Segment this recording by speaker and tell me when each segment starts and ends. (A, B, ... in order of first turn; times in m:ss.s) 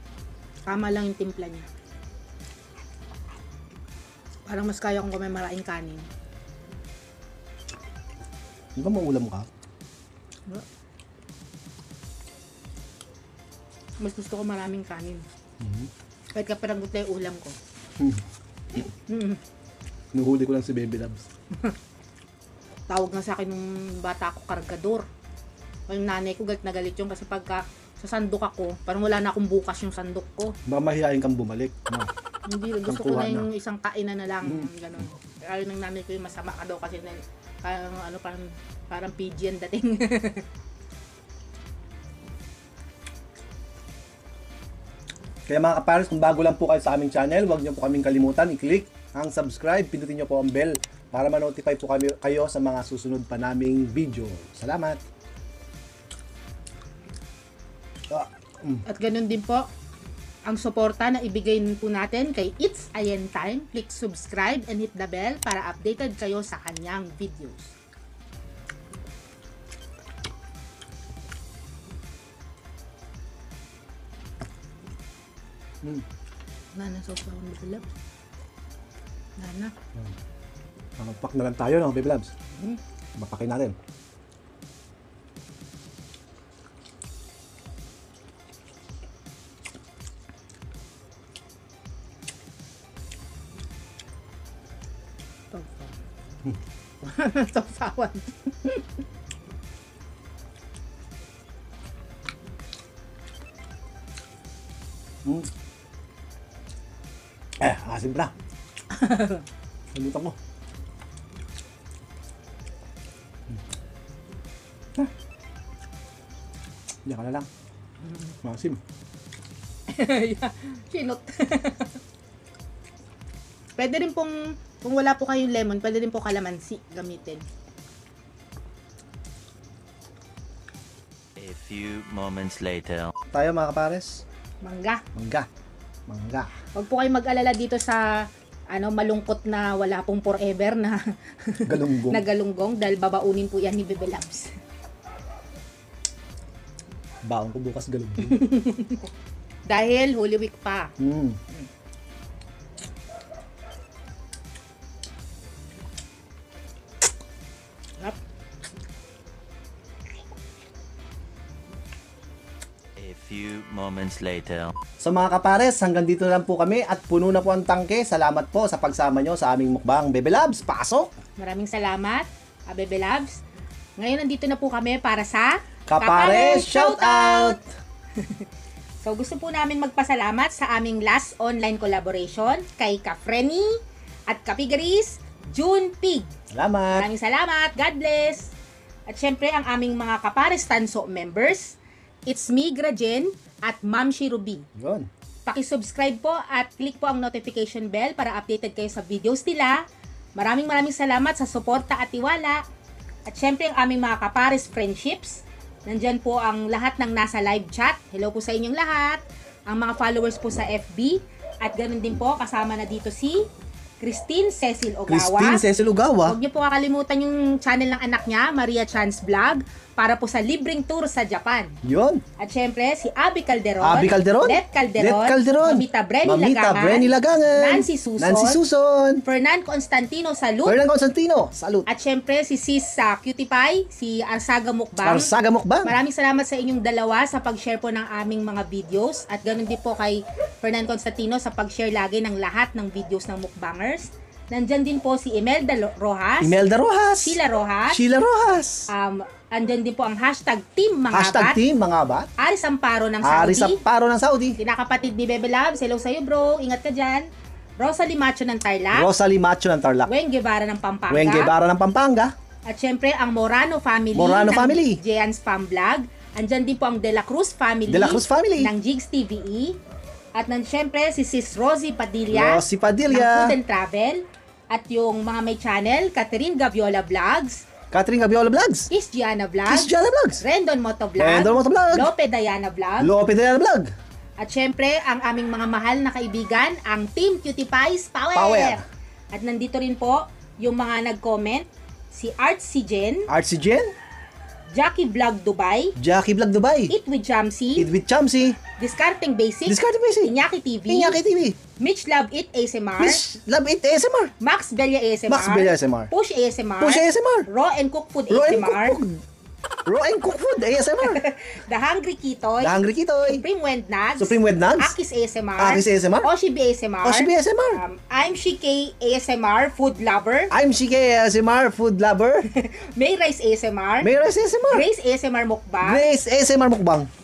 0:00.7-0:01.7 A
0:04.4-0:06.1 A
0:08.8-0:09.5 B
0:14.0-0:15.2 A
0:15.6-0:15.9 B
0:16.3-0:17.6 A
0:19.1-0:19.4 A
0:20.1-0:21.3 B
0:22.9-0:25.1 A
0:25.9-0:30.6 A
0:30.7-0:32.1 B
0:32.4-0:40.5 A
0:32.8-0:33.5 B
0:34.4-0:34.7 B
0:45.5-0:55.0 B
0:58.1-0:58.8 B
0:58.8-0:59.7 A
1:00.4-1:07.7 A
1:16.7-1:17.9 A
1:19.4-1:19.7 A
1:21.0-1:22.3 B
1:22.5-1:22.8 A
1:23.2-1:23.8 B
1:35.5-1:36.0 A
1:37.0-1:39.0 A
1:45.2-1:45.5 B
1:47.6-1:48.3 B
1:48.9-1:49.4 A
1:49.9-1:50.4 B
1:57.0-1:57.5 B
1:58.4-1:58.8 B
1:59.9-2:02.0 A
2:03.8-2:07.4 A
2:11.4-2:13.1 C
2:13.3-2:14.2 B
2:14.6-2:15.0 A
2:15.1-2:15.5 B
2:16.1-2:16.5 B
2:16.7-2:24.5 A
2:21.6-2:22.2 B
2:27.2-2:28.4 B
2:28.2-2:29.1 A
2:29.6-2:30.9 A
2:31.0-2:31.4 B
2:43.0-2:44.8 C
2:45.0-2:51.1 B
2:51.4-2:53.4 A
2:54.0-2:57.6 A
2:55.9-2:57.6 B
2:58.1-2:58.5 A
2:59.0-3:06.3 A
3:06.5-3:07.1 B
3:06.9-3:08.5 A
3:09.1-3:14.7 A
3:14.8-3:15.1 B
3:15.4-3:19.8 A
3:20.4-3:22.6 A
3:23.3-3:33.5 A
3:34.0-3:35.7 A
3:35.1-3:36.4 B
3:36.2-3:41.8 A
3:41.8-3:42.2 B
3:42.4-3:48.6 A
3:43.8-3:49.2 B
3:49.2-3:50.8 A
3:50.6-3:51.9 B
3:51.9-3:55.3 A
3:55.0-3:56.0 B
3:55.8-4:06.6 A
4:06.4-4:08.9 B
4:07.2-4:08.0 A
4:08.9-4:11.6 A
4:11.1-4:12.3 B
4:12.4-4:13.8 A
4:13.2-4:14.6 B
4:14.6-4:17.3 A
4:17.8-4:19.1 A
4:18.9-4:20.1 B
4:20.1-4:21.5 A
4:21.1-4:22.3 B
4:22.6-4:29.8 A
4:24.1-4:25.0 B
4:27.9-4:28.7 B
4:30.4-4:37.7 A
4:32.3-4:33.6 B
4:37.9-4:38.9 B
4:38.9-4:43.1 A
4:39.6-4:40.4 B
4:41.2-4:42.1 B
4:43.0-4:43.9 B
4:44.4-4:48.8 A
4:48.3-4:48.8 B
4:49.3-4:53.3 A
4:53.3-4:53.9 B
4:54.7-4:55.9 A
4:56.0-4:56.9 B
4:56.9-4:57.9 A
4:57.8-4:58.6 B
4:58.8-5:01.2 A
4:59.7-5:00.3 B
5:00.9-5:01.6 B
5:01.7-5:03.2 A
5:03.0-5:04.3 B
5:04.4-5:09.0 A
5:05.3-5:06.1 B
5:06.8-5:07.5 B
5:08.3-5:09.2 B
5:09.8-5:11.2 B
5:11.0-5:20.6 A
5:12.6-5:13.4 B
5:14.2-5:14.9 B
5:15.6-5:16.3 B
5:17.0-5:17.8 B
5:20.5-5:22.5 B
5:22.5-5:24.1 A
5:24.0-5:24.8 B
5:24.7-5:26.0 A
5:25.8-5:27.1 B